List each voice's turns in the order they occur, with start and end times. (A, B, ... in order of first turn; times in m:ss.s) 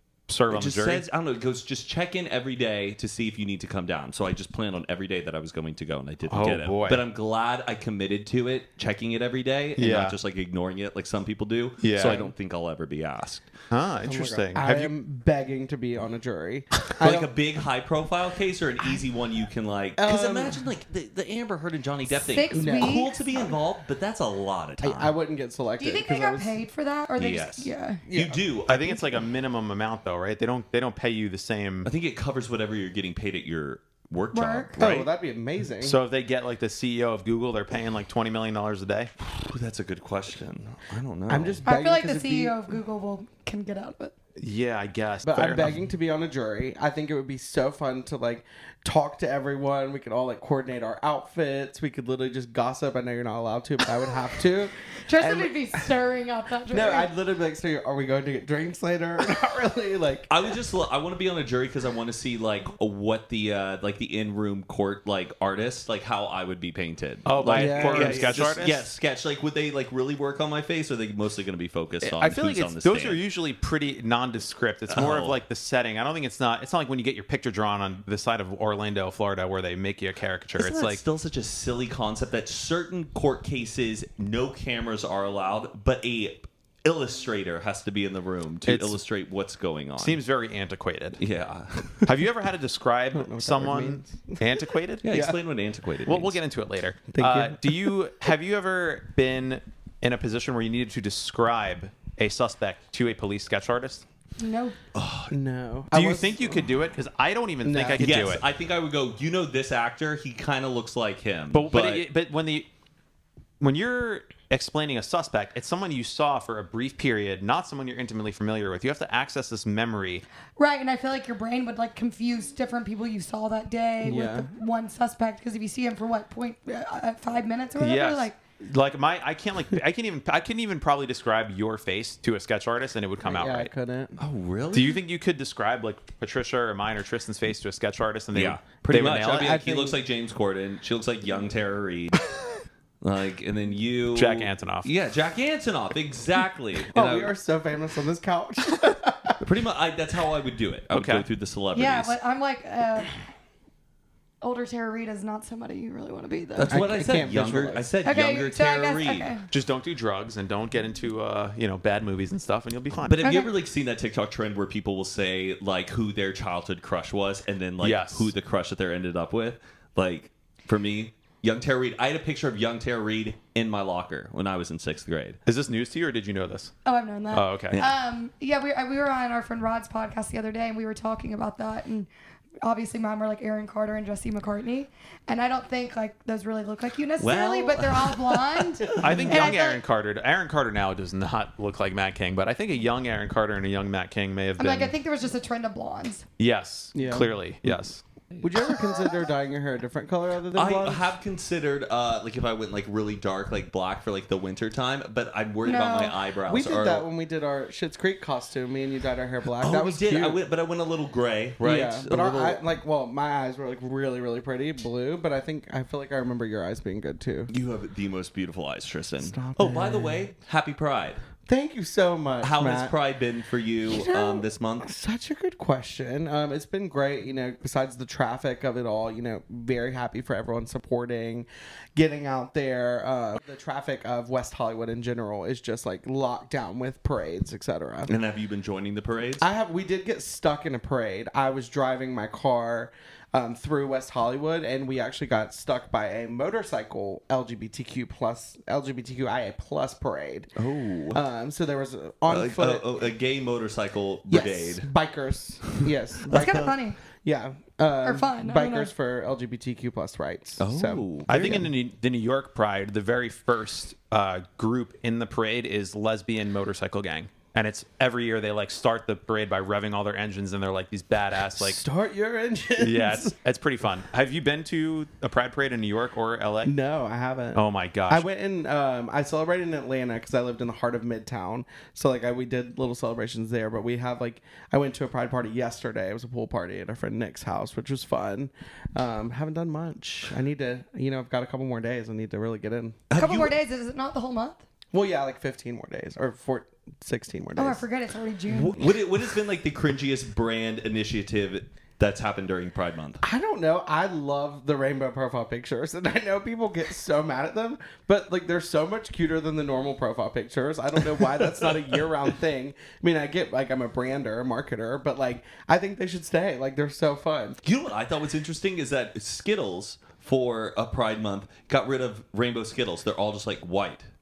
0:00.3-0:01.0 A
0:00.5-0:13.5 B
0:06.3-0:07.0 A
0:09.8-0:10.2 A
0:11.8-0:12.3 A
0:13.7-0:14.9 A
0:14.0-0:17.3 C
0:17.0-0:25.2 B
0:20.0-0:20.6 C
0:22.2-0:23.2 D
0:22.5-0:23.0 C
0:24.8-0:26.6 C
0:25.8-0:28.0 D
0:27.2-0:29.2 B
0:28.1-0:28.4 C
0:28.7-0:31.9 A
0:31.8-0:35.1 B
0:34.3-0:34.8 D
0:34.8-0:36.0 C
0:35.8-0:39.1 A
0:39.2-0:41.6 B
0:41.3-0:42.6 C
0:41.6-0:44.1 D
0:44.4-0:45.8 A
0:45.2-0:55.8 C
0:55.0-0:57.1 D
0:56.7-1:00.3 C
1:00.3-1:13.2 B
1:07.3-1:08.9 A
1:07.5-1:08.4 C
1:12.0-1:21.0 A
1:14.9-1:15.4 B
1:20.6-1:30.2 B
1:28.6-1:29.0 A
1:30.0-1:31.2 A
1:31.2-1:32.1 B
1:32.1-1:35.3 A
1:33.1-1:35.4 C
1:35.0-1:36.4 B
1:36.0-1:44.0 A
1:37.1-1:38.0 C
1:44.4-1:44.8 D
1:44.9-1:45.3 B
1:45.3-1:46.7 C
1:45.9-1:48.4 A
1:47.6-1:48.1 C
1:47.9-1:52.1 B
1:51.5-1:52.7 A
1:53.6-2:00.2 A
2:00.6-2:08.4 D
2:04.0-2:04.5 C
2:07.8-2:13.7 A
2:13.2-2:14.1 C
2:14.2-2:15.0 B
2:14.7-2:19.6 A
2:18.3-2:22.2 B
2:19.3-2:20.0 C
2:23.0-2:27.3 B
2:24.1-2:24.9 A
2:26.9-2:29.4 C
2:29.4-2:32.2 B
2:30.9-2:31.3 A
2:31.8-2:33.2 D
2:34.4-2:36.8 D
2:36.6-2:39.3 B
2:36.7-2:37.9 C
2:38.0-2:39.5 D
2:39.5-2:43.3 A
2:43.1-2:55.4 B
2:43.2-2:43.5 D
2:47.8-2:48.3 A
2:55.4-2:56.7 A
2:56.8-3:02.1 D
2:57.3-2:57.8 A
3:02.6-3:09.8 D
3:07.2-3:09.0 B
3:08.9-3:09.6 C
3:09.0-3:14.9 A
3:14.6-3:16.3 D
3:16.4-3:18.0 A
3:16.9-3:17.3 C
3:18.4-3:21.1 C
3:20.6-3:27.1 B
3:25.6-3:26.2 D
3:26.5-3:30.4 C
3:29.6-3:32.6 B
3:31.6-3:37.5 C
3:37.5-3:41.2 B
3:39.2-3:40.3 C
3:41.5-3:42.9 C
3:42.4-3:44.9 B
3:43.9-3:58.1 C
3:58.1-3:59.4 B
3:59.4-4:10.5 C
4:10.6-4:11.2 B
4:11.1-4:12.9 C
4:12.3-4:14.9 B
4:14.3-4:21.6 C
4:15.7-4:16.8 B
4:16.3-4:17.0 D
4:18.0-4:18.9 D
4:20.6-4:21.6 B
4:21.3-4:31.8 A
4:31.5-4:33.4 C
4:32.8-4:36.7 A
4:36.6-4:53.0 C
4:37.6-4:38.3 A
4:53.1-4:53.5 B
4:53.2-4:54.6 D
4:54.9-4:57.8 C
4:57.6-4:58.9 D
4:58.5-5:03.2 B
5:03.2-5:17.6 C
5:17.6-5:24.1 B